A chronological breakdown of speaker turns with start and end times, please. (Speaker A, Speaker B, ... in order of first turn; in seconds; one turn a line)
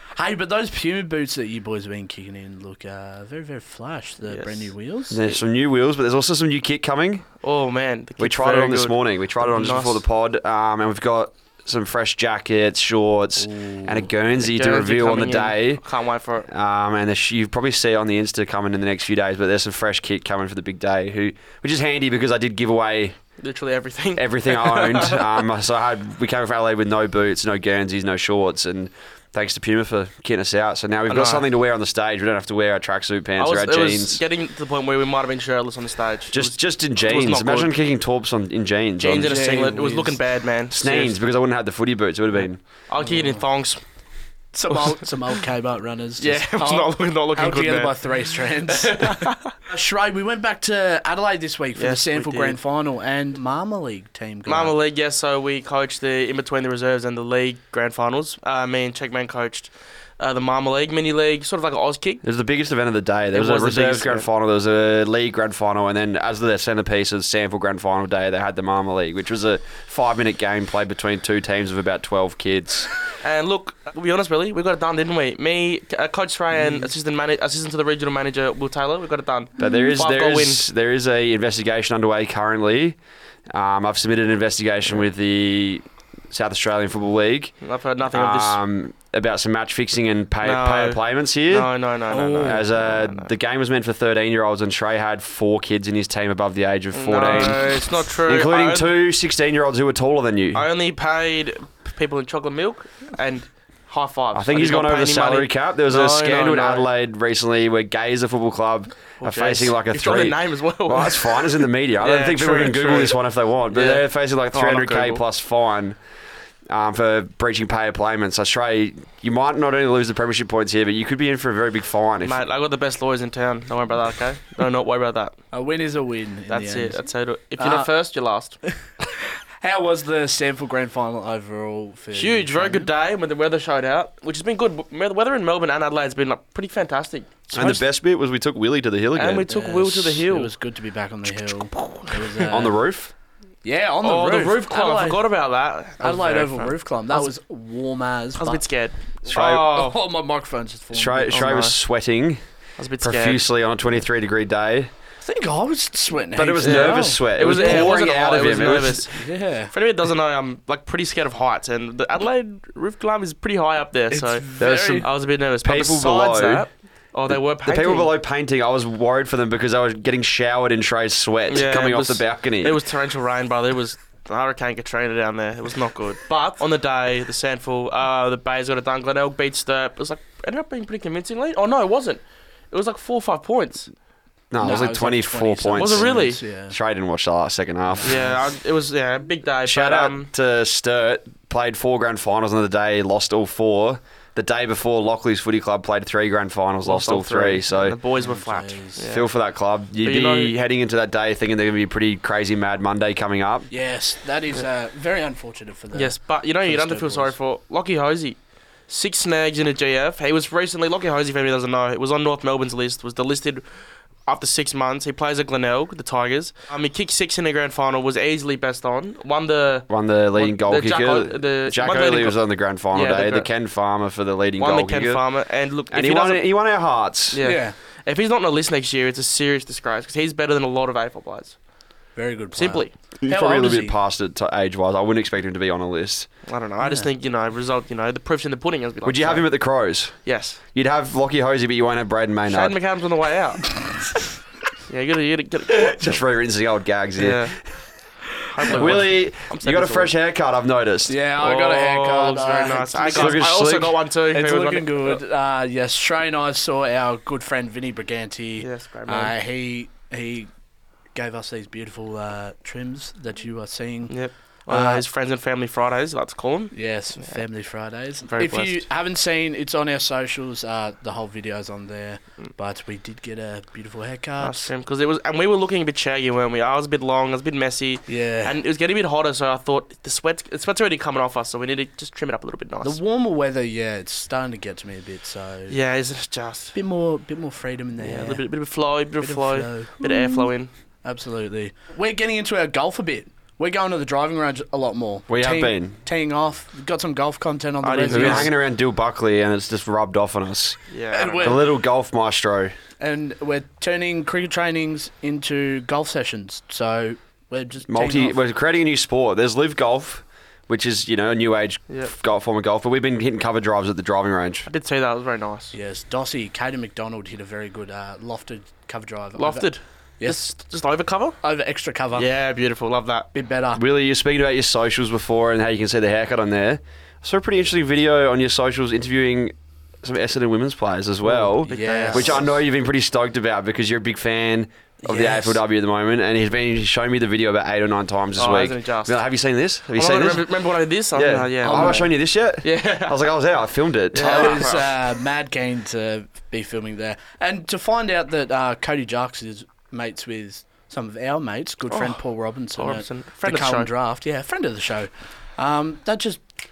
Speaker A: 0.1-5.2
Speaker B: 4.3-4.7
Speaker C: 5.1-7.3
Speaker B: 7.4-10.0
Speaker C: 8.2-15.8
Speaker A: 13.4-14.1
Speaker B: 14.4-16.5
Speaker C: 16.5-23.2
Speaker B: 23.4-25.4
Speaker C: 24.1-34.2
Speaker B: 31.1-31.4
Speaker B: 33.4-37.7
Speaker C: 36.3-39.4
Speaker B: 39.0-41.2
Speaker A: 39.1-40.2
Speaker C: 40.7-42.6
Speaker B: 42.3-43.8
Speaker A: 43.0-43.4
Speaker A: 44.5-54.8
Speaker B: 46.2-49.5
Speaker B: 51.8-52.5
Speaker B: 54.5-62.2
Speaker C: 62.2-72.9
Speaker B: 63.3-64.3
Speaker B: 73.2-80.6
Speaker C: 79.6-83.0
Speaker C: 83.5-87.6
Speaker B: 87.6-88.6
Speaker C: 88.1-91.7
Speaker B: 90.4-93.3
Speaker A: 92.1-92.7
Speaker C: 92.4-100.6
Speaker B: 96.9-98.9
Speaker A: 97.2-97.6
Speaker B: 100.5-106.9
Speaker C: 104.3-116.0
Speaker B: 109.2-115.2
Speaker C: 116.7-122.4
Speaker B: 122.2-125.4
Speaker A: 125.5-127.0
Speaker B: 126.5-128.6
Speaker A: 127.6-127.9
Speaker A: 129.6-132.9
Speaker B: 132.1-137.5
Speaker A: 137.5-137.8
Speaker C: 137.5-139.5
Speaker B: 139.1-140.5
Speaker A: 139.5-142.7
Speaker B: 141.5-142.4
Speaker C: 142.5-143.1
Speaker A: 143.6-145.2
Speaker B: 144.0-147.3
Speaker A: 146.0-148.6
Speaker B: 148.4-150.0
Speaker A: 149.2-151.6
Speaker C: 149.3-149.7
Speaker C: 150.9-152.4
Speaker B: 151.3-151.8
Speaker B: 152.8-153.4
Speaker C: 153.0-154.9
Speaker A: 155.2-158.0
Speaker C: 156.3-159.0
Speaker B: 156.6-168.1
Speaker A: 159.2-159.7
Speaker A: 164.1-165.1
Speaker C: 164.6-165.0
Speaker C: 165.6-166.6
Speaker C: 167.3-172.8
Speaker B: 171.5-183.9
Speaker C: 184.5-188.2
Speaker A: 184.6-186.8
Speaker B: 185.8-186.4
Speaker A: 188.0-188.3
Speaker B: 188.0-190.3
Speaker C: 189.7-198.0
Speaker B: 196.8-199.3
Speaker A: 198.2-199.1
Speaker C: 199.1-203.7
Speaker B: 200.0-200.5
Speaker A: 203.7-207.3
Speaker B: 205.9-213.6
Speaker B: 214.2-223.5
Speaker C: 219.9-225.2
Speaker B: 224.6-226.4
Speaker C: 225.9-227.4
Speaker B: 227.3-231.6
Speaker A: 227.4-227.7
Speaker A: 232.2-233.9
Speaker B: 232.6-232.9
Speaker C: 233.2-236.3
Speaker B: 236.4-239.5
Speaker A: 236.8-237.1
Speaker C: 239.0-242.8
Speaker B: 240.2-240.6
Speaker B: 242.5-243.7
Speaker A: 243.7-244.0
Speaker B: 244.9-246.2
Speaker C: 245.8-247.5
Speaker B: 247.2-247.5
Speaker B: 248.5-250.1
Speaker C: 248.7-251.1
Speaker A: 251.1-253.4
Speaker B: 251.4-255.2
Speaker C: 253.1-253.9
Speaker A: 254.3-260.5
Speaker B: 258.6-259.3
Speaker A: 261.1-264.1
Speaker B: 264.1-267.4
Speaker A: 264.7-265.0
Speaker A: 266.7-274.7
Speaker B: 268.3-268.8
Speaker B: 274.4-283.0
Speaker A: 278.1-278.6
Speaker A: 282.8-285.8
Speaker B: 285.7-286.7
Speaker A: 286.7-288.5
Speaker B: 288.0-290.7
Speaker A: 289.2-290.5
Speaker A: 291.0-298.5
Speaker C: 295.3-296.0
Speaker B: 297.8-298.5
Speaker C: 298.1-300.8
Speaker B: 300.9-301.6
Speaker A: 301.1-301.7
Speaker C: 301.4-302.7
Speaker A: 303.0-308.4
Speaker C: 307.9-314.7
Speaker B: 314.7-315.7
Speaker A: 315.7-320.5
Speaker B: 319.4-321.4
Speaker A: 321.4-322.3
Speaker B: 322.1-323.3
Speaker A: 323.3-323.8
Speaker C: 323.7-340.5
Speaker B: 331.2-332.4
Speaker A: 331.6-332.5
Speaker A: 335.0-335.6
Speaker B: 338.4-339.2
Speaker B: 339.9-342.1
Speaker C: 341.1-344.6
Speaker A: 341.6-342.1
Speaker B: 342.6-343.3
Speaker B: 344.1-344.9
Speaker A: 344.2-356.4
Speaker B: 351.9-352.2
Speaker B: 352.8-353.9